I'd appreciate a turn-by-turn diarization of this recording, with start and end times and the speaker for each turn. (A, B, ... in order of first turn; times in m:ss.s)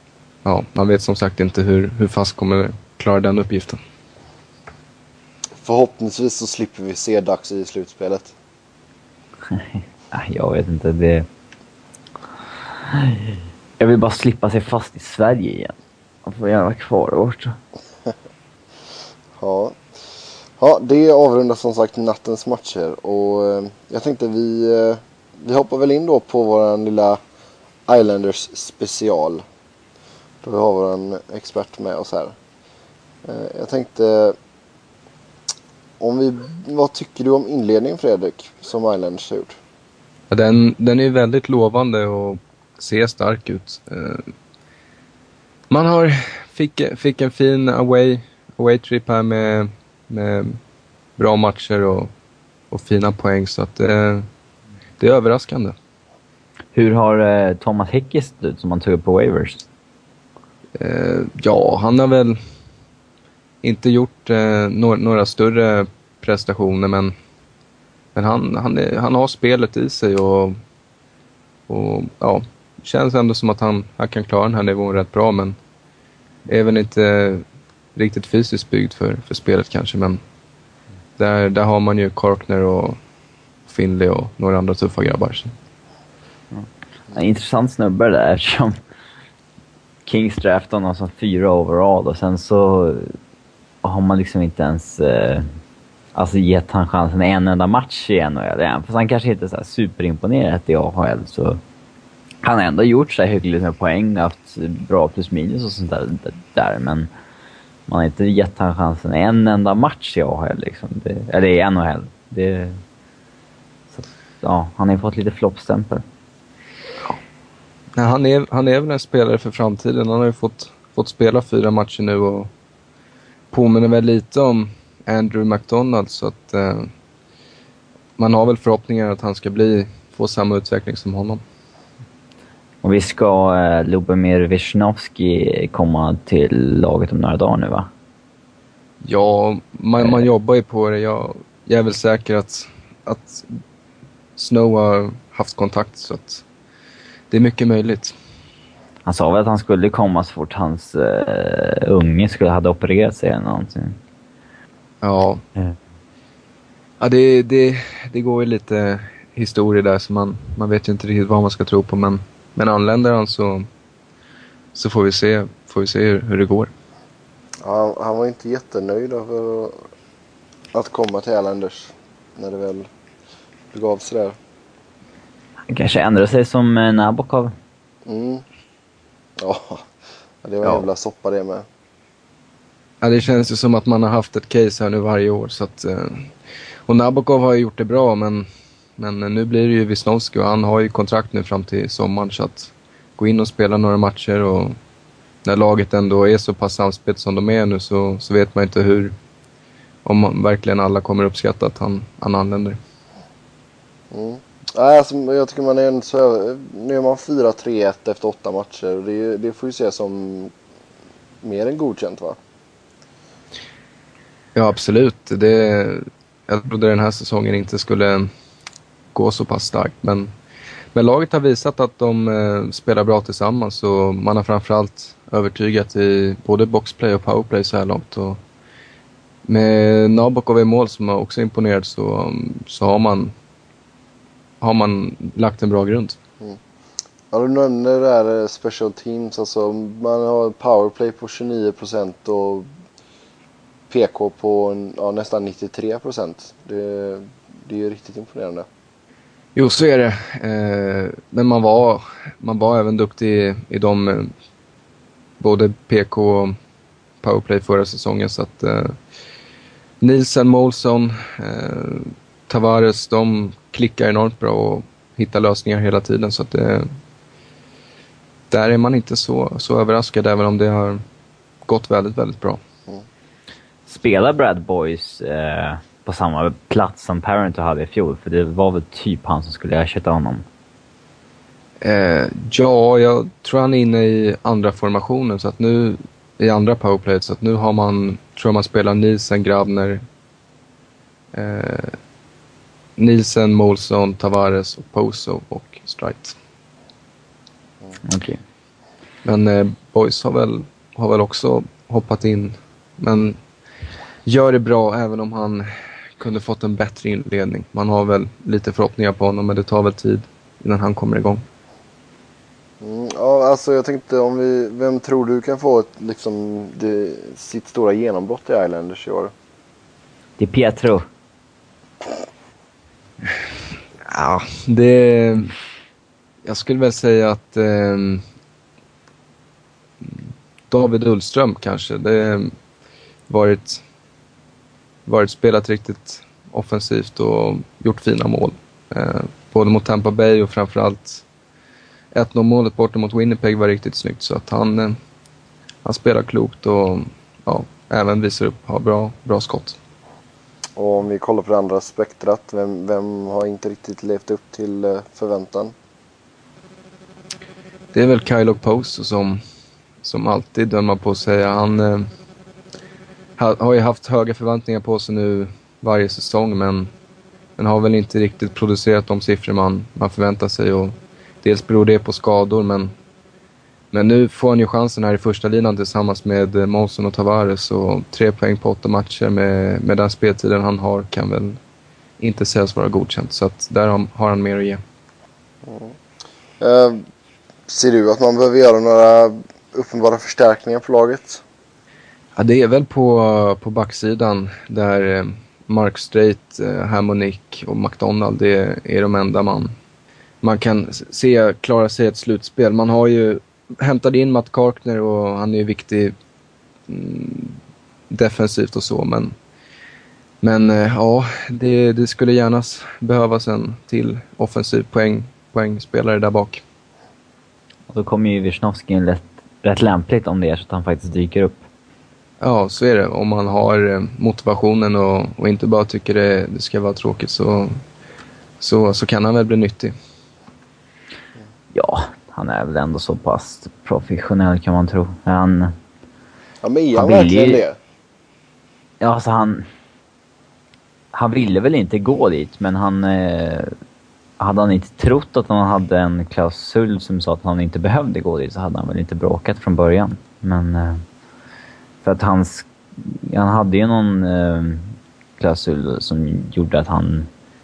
0:00.4-0:03.8 A
0:05.6-0:08.3 B
0:09.5-0:11.3 C
0:12.9-0:15.8 C
0:16.3-0:17.6 C
0:19.4-0:19.8 B
0:20.6-0:27.2 B
0:27.9-0:29.4 B
0:30.4-0:32.4 B
0:33.2-0:34.4 B
0:36.0-0:39.6 B
0:40.3-0:44.3 A
0:45.7-0:50.6 A
0:51.2-0:52.1 A
0:52.7-0:54.3 A
0:55.0-0:55.8 A
0:56.7-0:59.7 C
1:00.8-1:02.4 A
1:03.6-1:07.1 A
1:08.2-1:10.6 A
1:11.7-1:15.6 A
1:16.5-1:17.4 A
1:18.0-1:20.2 A
1:21.2-1:23.0 A
1:23.7-1:25.5 A
1:26.5-1:28.8 C
1:30.1-1:33.2 C
1:33.8-1:35.5 C
1:36.2-1:41.6 C
1:42.4-1:47.1 C
1:47.9-1:52.8 C
1:54.0-1:56.0 C
1:58.0-2:02.5 A
2:03.5-2:06.9 A
2:08.2-2:11.4 A
2:12.8-2:17.9 C
2:19.0-2:23.6 A
2:24.4-2:26.4 A
2:27.3-2:28.2 A
2:29.1-2:34.0 C
2:35.0-2:35.4 A
2:37.0-2:43.7 A
2:44.7-2:46.7 A
2:47.6-2:49.9 B
2:50.7-2:52.9 B
2:53.7-2:54.4 B
2:55.7-2:57.6 C
2:58.1-2:58.4 B
2:59.4-2:59.9 B
3:00.4-3:01.7 B
3:03.0-3:06.3 A
3:06.9-3:14.8 A
3:15.4-3:19.1 A
3:20.0-3:22.8 A
3:24.1-3:30.5 B
3:31.4-3:32.4 B
3:34.6-3:38.3 A
3:39.1-3:40.3 A
3:40.9-3:48.4 A
3:49.5-3:53.3 A
3:54.6-3:56.2 A
3:57.3-4:02.7 B
4:03.9-4:08.7 B
4:09.6-4:14.3 A
4:15.4-4:16.6 A
4:17.2-4:19.0 A
4:20.0-4:26.9 A
4:28.5-4:31.0 A
4:31.7-4:32.6 A
4:33.9-4:40.4 C
4:41.8-4:50.0 A
4:51.3-4:52.0 A
4:53.0-4:56.4 A
4:58.0-4:58.4 C
4:59.2-5:03.4 A
5:04.3-5:11.4 A
5:12.8-5:19.3 B
5:20.4-5:21.1 C
5:24.0-5:25.6 A
5:26.4-5:28.2 A
5:30.0-5:32.6 A
5:33.3-5:33.8 A
5:35.1-5:41.2 A
5:42.1-5:45.0 A
5:45.8-5:49.8 A
5:50.8-5:55.7 B
5:57.9-5:59.4 A
6:00.0-6:02.1 A
6:03.4-6:06.9 A
6:07.6-6:12.9 A
6:13.9-6:21.6 A
6:22.2-6:24.8 A
6:25.6-6:26.0 B
6:26.6-6:27.0 B
6:27.7-6:31.4 B
6:32.4-6:39.8 A
6:40.4-6:46.2 A
6:46.9-6:47.6 A
6:48.1-6:49.4 A
6:50.4-6:56.6 A
6:57.9-7:01.6 C
7:02.4-7:07.8 A
7:08.6-7:09.9 A
7:11.7-7:15.8 C
7:16.6-7:17.8 B
7:17.0-7:17.6 C
7:19.0-7:19.7 C
7:21.1-7:23.7 C
7:24.4-7:31.0 C
7:32.0-7:37.3 C